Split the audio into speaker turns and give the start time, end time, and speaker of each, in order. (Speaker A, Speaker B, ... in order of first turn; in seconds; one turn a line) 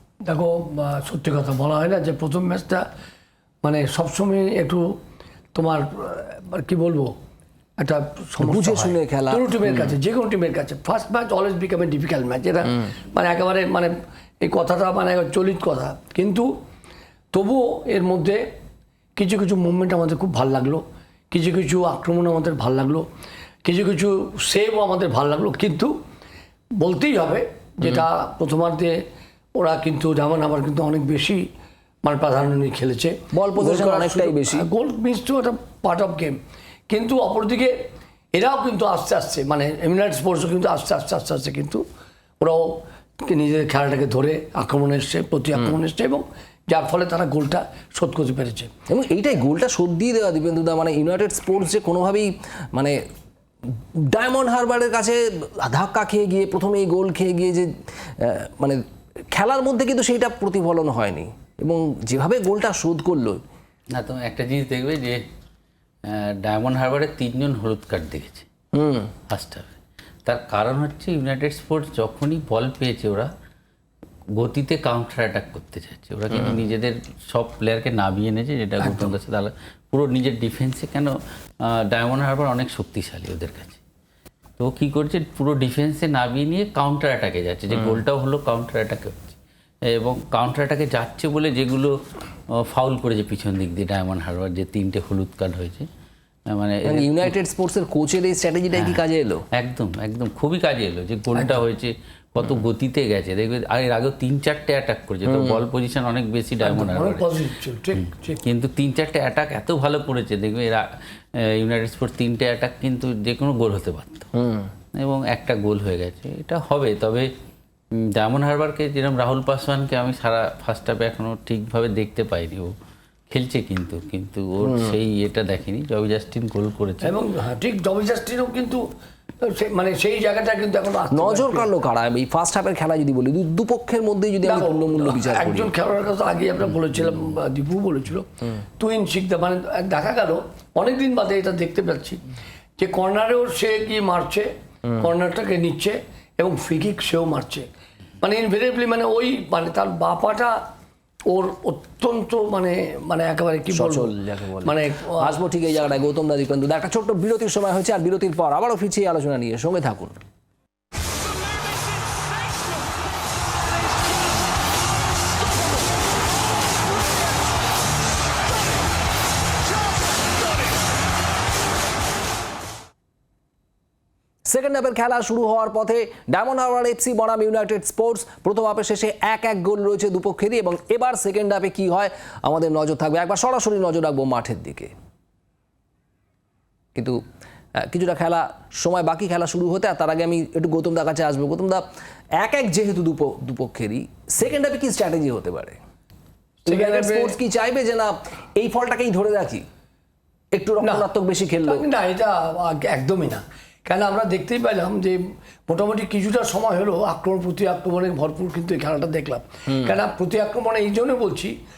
Speaker A: 0.3-2.8
Speaker A: 3.6-4.9
Speaker A: 5.5-7.1
Speaker A: 7.8-13.9
Speaker B: 8.4-9.9
Speaker A: 14.4-16.5
Speaker A: 17.3-18.4
Speaker A: 19.2-23.0
Speaker A: 23.6-25.9
Speaker A: 26.8-28.9
Speaker A: 29.6-31.4
Speaker A: 32.0-36.4
Speaker B: 33.3-34.7
Speaker A: 36.9-37.7
Speaker A: 38.3-41.8
Speaker A: 42.4-48.7
Speaker B: 48.9-53.0
Speaker B: 54.0-58.8
Speaker B: 59.3-63.4
Speaker C: 63.9-65.2
Speaker C: 66.1-68.5
Speaker B: 68.7-69.1
Speaker C: 69.3-73.3
Speaker C: 74.3-81.1
Speaker C: 81.7-83.8
Speaker C: 84.6-89.4
Speaker B: 87.8-88.0
Speaker C: 89.9-91.9
Speaker C: 92.5-95.9
Speaker C: 96.5-97.3
Speaker B: 96.8-99.4
Speaker C: 98.7-99.0
Speaker C: 99.5-107.3
Speaker A: 101.3-101.6
Speaker B: 105.2-105.6
Speaker A: 106.6-108.4
Speaker C: 107.9-110.8
Speaker C: 111.5-114.3
Speaker B: 114.3-114.7
Speaker C: 114.9-117.3
Speaker C: 118.2-122.7
Speaker C: 123.3-127.1
Speaker B: 124.6-125.0
Speaker A: 127.0-128.8
Speaker A: 129.4-131.7
Speaker B: 131.1-135.7
Speaker A: 134.4-138.3
Speaker A: 138.8-142.2
Speaker A: 142.8-144.5
Speaker A: 145.0-147.7
Speaker A: 148.2-150.6
Speaker A: 151.3-154.1
Speaker B: 153.7-160.2
Speaker A: 154.6-155.4
Speaker B: 174.4-184.9
Speaker B: 186.9-187.2
Speaker B: 187.8-191.8
Speaker B: 192.4-195.8
Speaker A: 196.6-197.3
Speaker B: 196.7-199.6
Speaker B: 200.5-201.8
Speaker A: 200.8-201.1
Speaker A: 201.6-211.6
Speaker B: 209.7-209.9